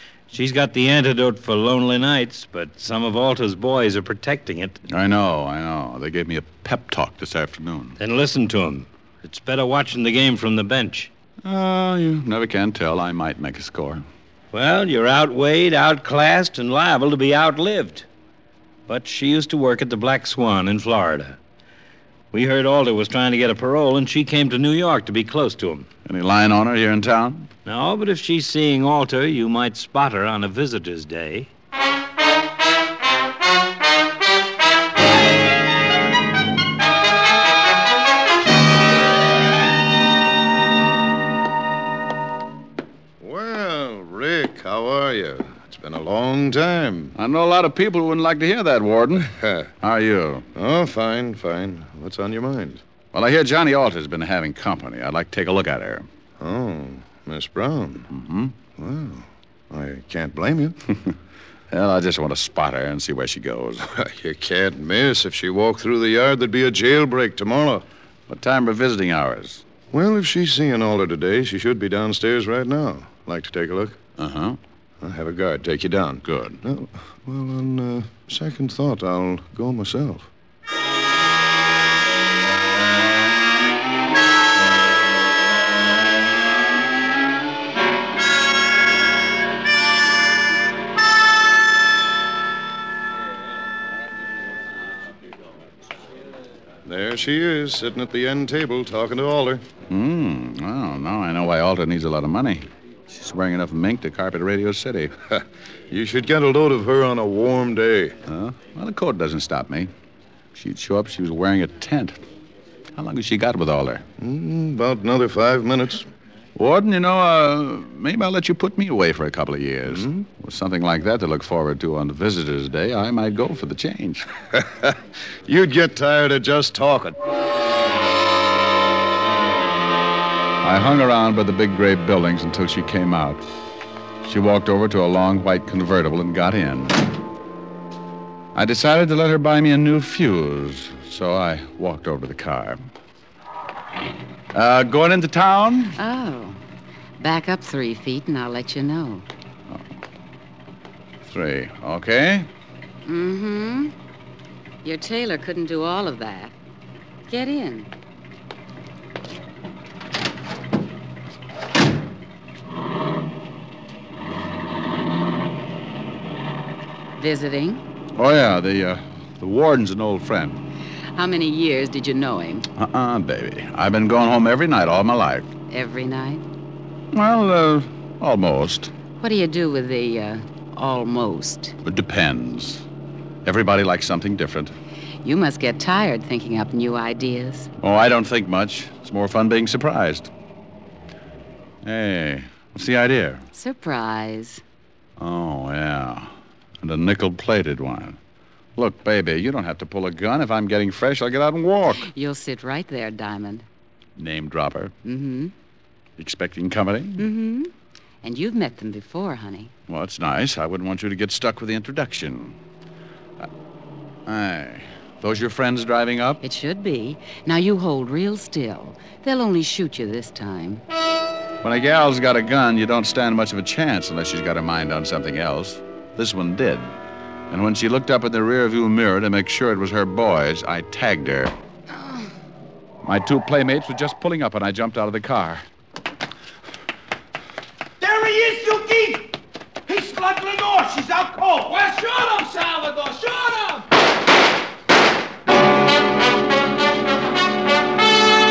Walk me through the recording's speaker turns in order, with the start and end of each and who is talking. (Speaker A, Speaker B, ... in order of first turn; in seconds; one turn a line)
Speaker A: 0.3-4.8
Speaker B: 4.9-8.0
Speaker A: 8.0-11.1
Speaker B: 11.4-14.0
Speaker A: 14.5-18.1
Speaker A: 18.9-21.4
Speaker A: 22.3-25.9
Speaker B: 26.0-27.5
Speaker A: 27.6-31.5
Speaker C: 43.2-47.1
Speaker B: 47.1-49.3
Speaker B: 49.8-50.4
Speaker C: 50.5-52.8
Speaker B: 53.1-56.0
Speaker C: 56.4-58.1
Speaker B: 58.1-58.5
Speaker C: 58.8-60.8
Speaker B: 61.7-63.8
Speaker C: 63.9-67.8
Speaker B: 68.3-69.6
Speaker C: 69.9-74.0
Speaker B: 74.2-74.6
Speaker C: 75.0-80.3
Speaker B: 76.2-76.6
Speaker C: 96.8-99.7
Speaker B: 99.9-105.1
Speaker C: 105.9-108.2
Speaker B: 108.3-109.9
Speaker B: 110.5-112.2
Speaker B: 113.0-114.0
Speaker C: 114.2-116.0
Speaker B: 116.5-124.2
Speaker C: 120.0-120.2
Speaker C: 125.5-127.1
Speaker B: 130.6-133.4
Speaker B: 134.2-137.0
Speaker B: 138.5-142.8
Speaker B: 144.5-145.9
Speaker D: 145.9-146.6
Speaker D: 147.2-149.2
Speaker B: 151.2-152.5
Speaker D: 153.1-153.9
Speaker D: 154.8-156.5
Speaker D: 157.3-157.9
Speaker D: 167.2-167.8
Speaker B: 168.2-170.6
Speaker D: 171.1-172.7
Speaker B: 172.8-175.5
Speaker D: 175.7-176.4
Speaker B: 177.1-178.9
Speaker D: 179.2-181.8
Speaker B: 181.8-182.8
Speaker B: 183.4-184.7
Speaker D: 185.2-187.7
Speaker B: 187.8-190.3
Speaker B: 191.8-193.4
Speaker D: 193.5-194.6
Speaker B: 195.2-196.3
Speaker B: 196.8-198.2
Speaker B: 198.8-202.1
Speaker D: 202.0-203.7
Speaker B: 204.2-204.9
Speaker D: 205.0-205.5
Speaker B: 206.2-207.2
Speaker D: 207.2-207.7
Speaker D: 208.2-209.7
Speaker B: 209.9-212.6
Speaker B: 214.3-216.4
Speaker D: 216.4-220.8
Speaker B: 221.6-226.9
Speaker B: 227.5-231.5
Speaker B: 233.0-235.6
Speaker E: 238.0-239.3
Speaker E: 239.9-243.8